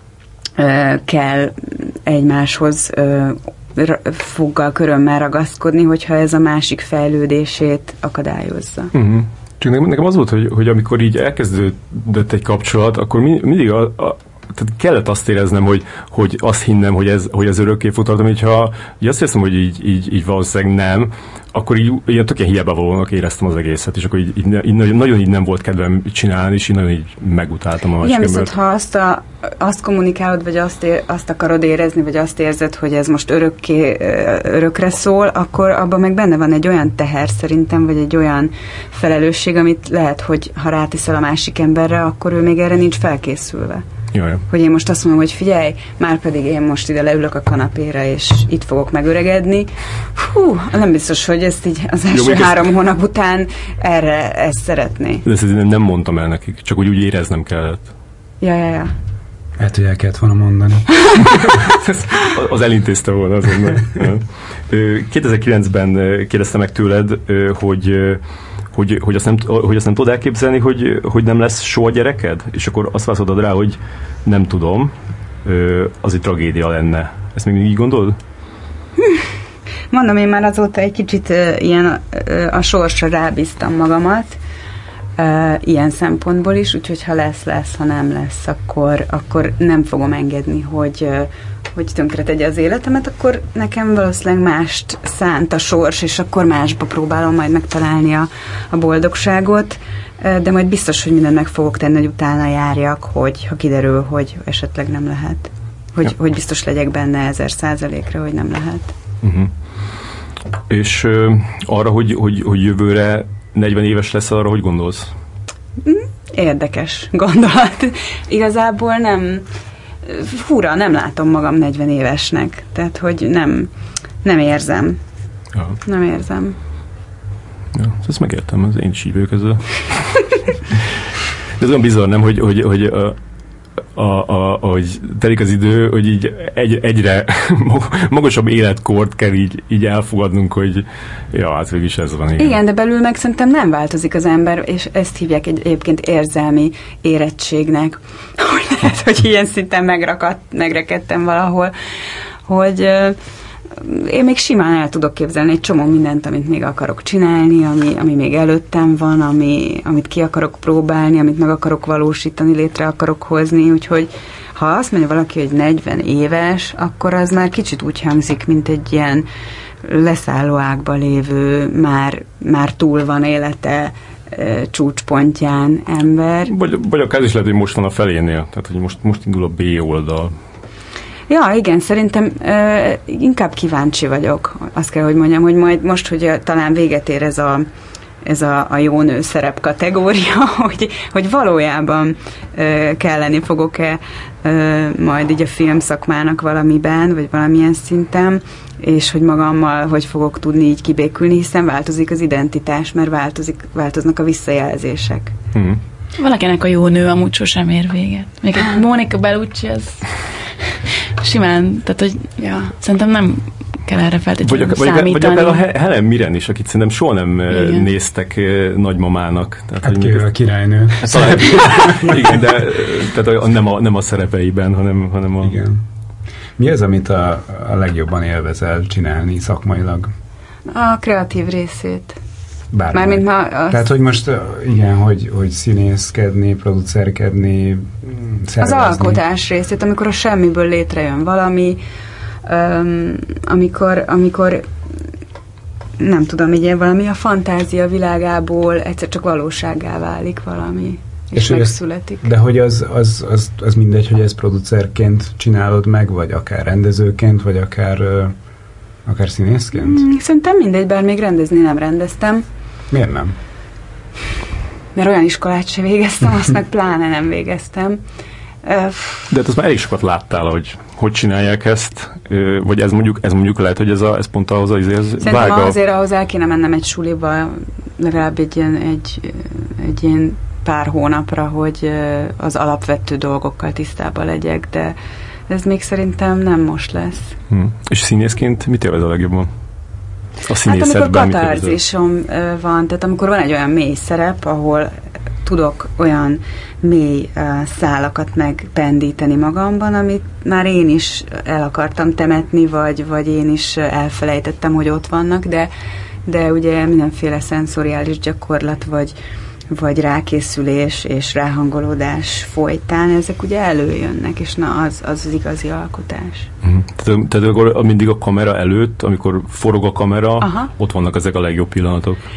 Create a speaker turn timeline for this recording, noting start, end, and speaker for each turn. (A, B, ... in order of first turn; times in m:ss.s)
0:00.6-0:08.9 A
0:08.9-0:28.5 B
0:28.0-0:43.8 A
0:44.1-0:44.4 B
0:44.5-0:55.2 A
0:52.1-0:52.6 B
0:55.2-0:57.9 B
0:58.4-0:58.9 A
0:59.6-1:01.0 C
1:01.3-1:08.2 B
1:08.7-1:18.2 B
1:19.0-1:19.3 A
1:19.9-1:24.4 A
1:25.2-1:48.9 A
1:49.2-1:49.5 B
1:50.7-1:55.1 B
1:55.8-1:59.4 A
2:00.0-2:03.7 A
2:04.2-2:05.0 A
2:05.8-2:06.6 A
2:07.7-2:10.8 B
2:11.6-2:13.2 B
2:13.9-2:22.6 B
2:22.4-2:31.7 A
2:32.4-2:33.2 A
2:33.8-2:49.3 A
2:49.8-2:56.5 A
2:56.5-3:00.3 B
3:01.3-3:07.7 A
3:08.2-3:25.3 A
3:25.5-3:25.8 B
3:26.2-3:30.1 D
3:31.2-3:35.6 D
3:34.4-3:40.3 B
3:37.5-3:37.9 D
3:39.8-3:42.4 C
3:41.0-3:45.6 B
3:45.4-3:45.8 C
3:46.6-3:50.1 C
3:50.7-3:52.2 A
3:52.7-3:59.2 C
3:52.9-3:53.9 A
3:58.6-4:01.8 A
4:02.4-4:04.7 A
4:06.0-4:12.3 A
4:11.3-4:18.3 C
4:19.0-4:20.0 C
4:19.7-4:22.4 A
4:22.9-4:23.4 C
4:24.9-4:28.0 A
4:28.6-4:29.3 A
4:29.3-4:35.8 B
4:35.2-4:44.9 A
4:45.5-4:47.3 A
4:47.5-4:49.5 B
4:50.4-4:51.8 B
4:50.6-5:05.7 A
5:06.2-5:09.1 A
5:09.7-5:16.5 A
5:16.6-5:22.2 B
5:20.4-5:20.7 A